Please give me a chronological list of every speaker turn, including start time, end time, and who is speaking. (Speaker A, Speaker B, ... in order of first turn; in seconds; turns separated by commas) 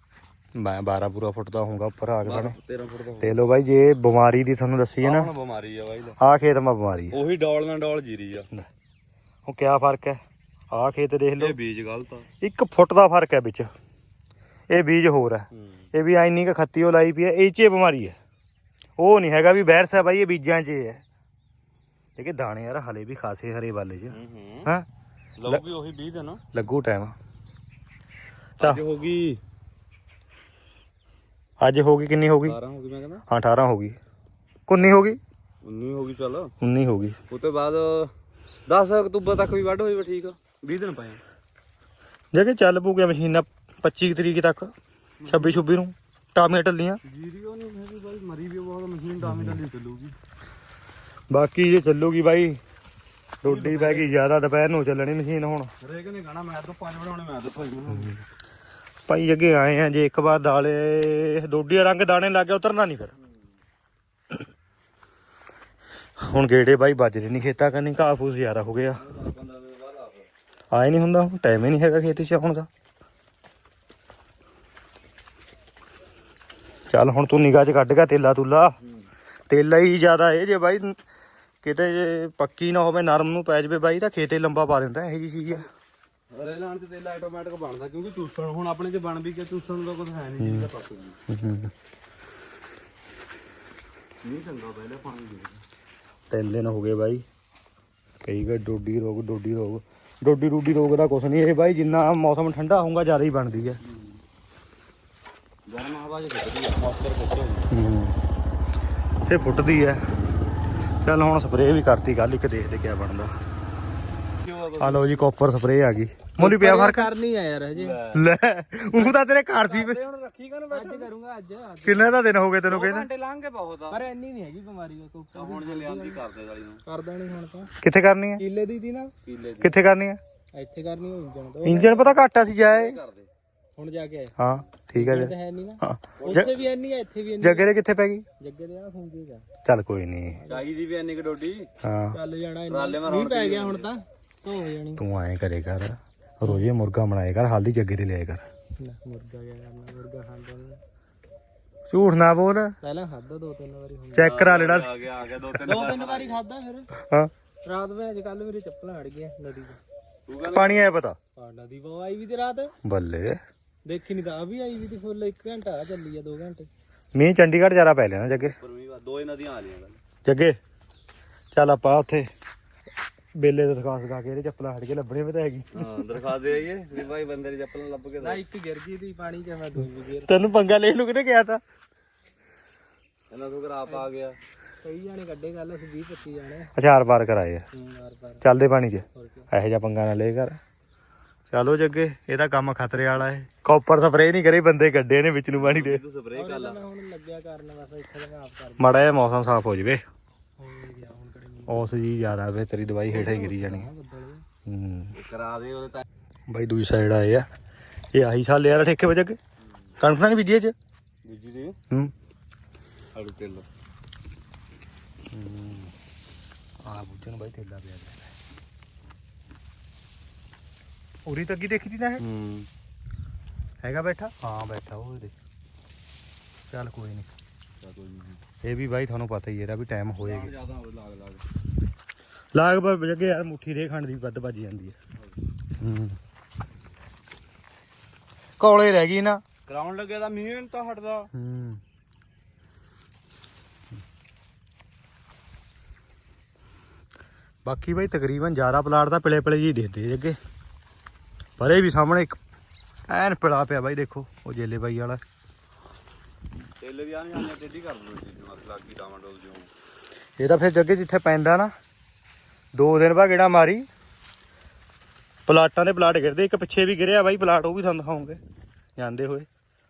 Speaker A: 0.6-2.6, Speaker B: 2.2-3.4, Speaker A: 3.2-5.3, Speaker B: 5.0-6.2, Speaker A: 6.2-7.2, Speaker B: 7.1-8.5, Speaker A: 9.5-10.2, Speaker A: 10.7-11.6, Speaker B: 11.4-12.3, Speaker A: 12.4-13.7, Speaker A: 14.7-18.2, Speaker B: 15.5-15.9, Speaker A: 19.0-21.0, Speaker A: 22.2-24.9, Speaker B: 24.1-24.7, Speaker B: 25.4-26.4, Speaker A: 26.5-27.1, Speaker B: 28.6-29.4, Speaker A: 31.6-32.6, Speaker B: 32.4-33.2, Speaker A: 33.3-34.0, Speaker A: 34.7-35.2, Speaker B: 35.6-36.5, Speaker A: 36.6-37.2, Speaker B: 37.3-38.1, Speaker B: 38.7-41.2, Speaker A: 42.3-44.7, Speaker B: 45.2-45.7, Speaker A: 45.3-47.0, Speaker B: 47.0-50.1, Speaker A: 49.2-49.6, Speaker A: 51.3-52.6, Speaker B: 53.4-54.1, Speaker A: 53.4-55.7, Speaker B: 55.8-58.1, Speaker A: 57.9-58.2, Speaker A: 59.1-63.1, Speaker A: 66.2-69.0, Speaker B: 68.9-70.3, Speaker A: 70.7-72.7, Speaker A: 76.9-78.8, Speaker A: 79.5-81.0, Speaker A: 81.6-85.7, Speaker B: 86.3-91.2, Speaker A: 90.4-90.7, Speaker A: 91.3-91.7, Speaker B: 94.2-95.6, Speaker A: 96.3-97.2, Speaker A: 98.2-103.8, Speaker B: 103.8-104.2, Speaker B: 105.7-107.7, Speaker A: 107.7-108.2, Speaker A: 109.3-110.1, Speaker A: 111.0-113.3, Speaker B: 114.4-115.2, Speaker A: 114.8-117.1, Speaker C: 116.4-118.1, Speaker B: 117.7-118.3, Speaker A: 118.1-120.0, Speaker C: 118.9-122.1, Speaker B: 120.1-121.1, Speaker A: 121.8-123.1, Speaker B: 122.7-124.1, Speaker C: 123.9-126.2, Speaker B: 125.3-126.8, Speaker C: 126.9-127.7, Speaker A: 127.8-128.4, Speaker C: 128.4-129.1, Speaker B: 129.2-129.8, Speaker A: 129.6-130.2, Speaker C: 130.5-132.2, Speaker A: 131.6-133.0, Speaker B: 132.6-133.3, Speaker C: 133.8-134.3, Speaker A: 134.4-136.5, Speaker C: 134.9-137.7, Speaker B: 136.2-136.7, Speaker A: 137.4-138.2, Speaker C: 138.4-139.5, Speaker A: 139.7-140.4, Speaker C: 140.4-140.7, Speaker B: 140.5-141.7, Speaker A: 141.8-142.2, Speaker C: 142.1-145.0, Speaker B: 142.7-143.9, Speaker A: 145.0-148.4, Speaker C: 148.8-150.8, Speaker A: 151.9-152.8, Speaker C: 152.8-154.3, Speaker A: 154.1-154.9, Speaker B: 154.2-156.4, Speaker C: 155.7-156.9, Speaker C: 157.6-159.8, Speaker B: 160.3-160.9, Speaker A: 160.5-161.2, Speaker C: 161.4-162.8, Speaker A: 162.8-163.4, Speaker C: 163.9-166.7, Speaker A: 167.2-168.6, Speaker B: 168.6-170.0, Speaker A: 170.2-170.6, Speaker A: 171.5-172.3, Speaker A: 173.3-175.9, Speaker B: 175.7-178.4, Speaker C: 178.2-180.3, Speaker A: 180.2-181.6, Speaker B: 183.3-184.4, Speaker C: 184.8-186.7, Speaker A: 186.8-187.7, Speaker C: 187.7-188.4, Speaker A: 188.4-190.6, Speaker C: 189.1-189.5, Speaker A: 191.5-196.0, Speaker B: 195.5-196.9, Speaker C: 196.3-199.0, Speaker A: 198.8-200.0, Speaker C: 200.6-202.0, Speaker A: 201.7-203.9, Speaker C: 203.1-204.4, Speaker A: 204.7-205.2, Speaker B: 205.1-206.0, Speaker A: 206.5-207.5, Speaker A: 208.1-209.4, Speaker A: 210.0-210.7, Speaker B: 211.2-211.8, Speaker B: 213.1-213.7, Speaker A: 215.3-215.9, Speaker A: 216.8-218.3, Speaker A: 221.3-222.2, Speaker B: 222.2-222.7, Speaker A: 223.8-225.3, Speaker A: 226.7-227.3, Speaker B: 227.8-228.4, Speaker A: 228.6-230.5, Speaker B: 230.2-231.4, Speaker A: 232.5-235.0, Speaker A: 235.8-236.2, Speaker A: 238.6-239.4, Speaker B: 239.7-241.3, Speaker A: 241.3-241.8, Speaker A: 247.7-250.4, Speaker A: 251.6-252.4, Speaker A: 253.1-255.2, Speaker B: 256.8-259.7, Speaker A: 260.4-261.7, Speaker A: 262.8-263.9, Speaker A: 265.5-268.4, Speaker A: 269.0-269.5